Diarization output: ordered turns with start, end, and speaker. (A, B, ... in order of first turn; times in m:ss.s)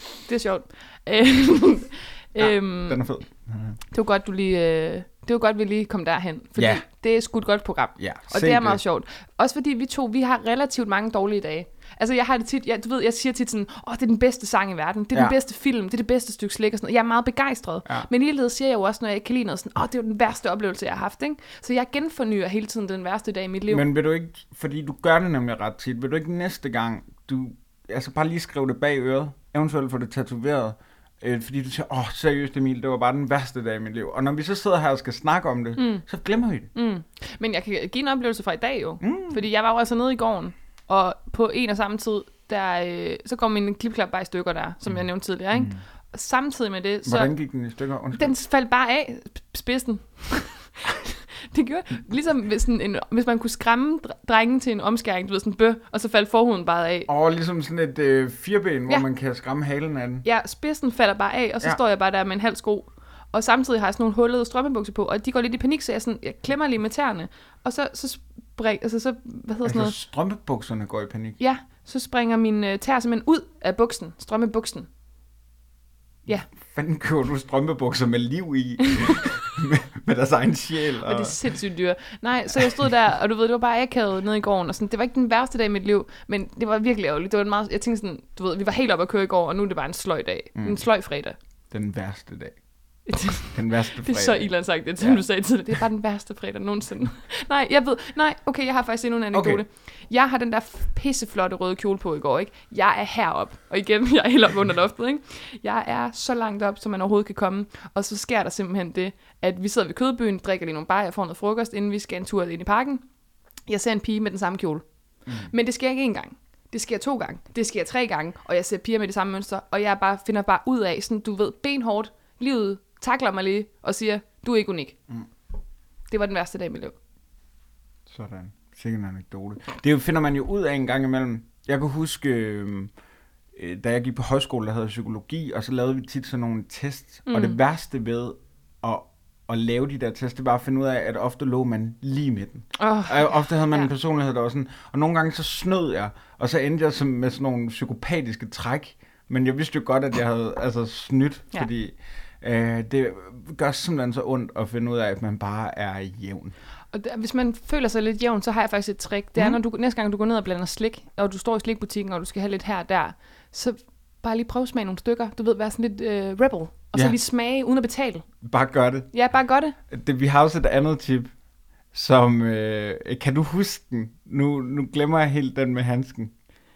0:00.3-0:03.0 A
0:02.4-0:03.8 B
0:03.9-0:23.8 A
0:06.6-0:06.8 B
0:08.0-0:08.8 B
0:23.7-0:36.7 B
0:35.8-0:36.0 A
0:36.7-0:47.4 A
0:39.0-0:39.4 B
0:44.9-0:45.8 B
0:47.0-0:48.3 B
0:48.1-0:57.1 A
0:57.1-1:00.2 B
1:00.2-1:09.9 A
1:09.6-1:11.4 B
1:11.4-1:14.9 A
1:16.5-1:21.4 B
1:21.0-1:31.4 A
1:30.5-1:30.8 B
1:31.7-1:35.2 B
1:33.1-1:53.0 A
1:39.3-1:39.6 B
1:53.6-2:05.0 A
2:06.1-2:06.9 A
2:08.1-2:12.9 B
2:13.5-2:36.5 B
2:17.3-2:17.6 A
2:22.7-2:23.9 A
2:36.9-2:48.3 A
2:48.4-2:51.3 B
2:49.1-2:49.8 A
2:51.9-2:56.3 B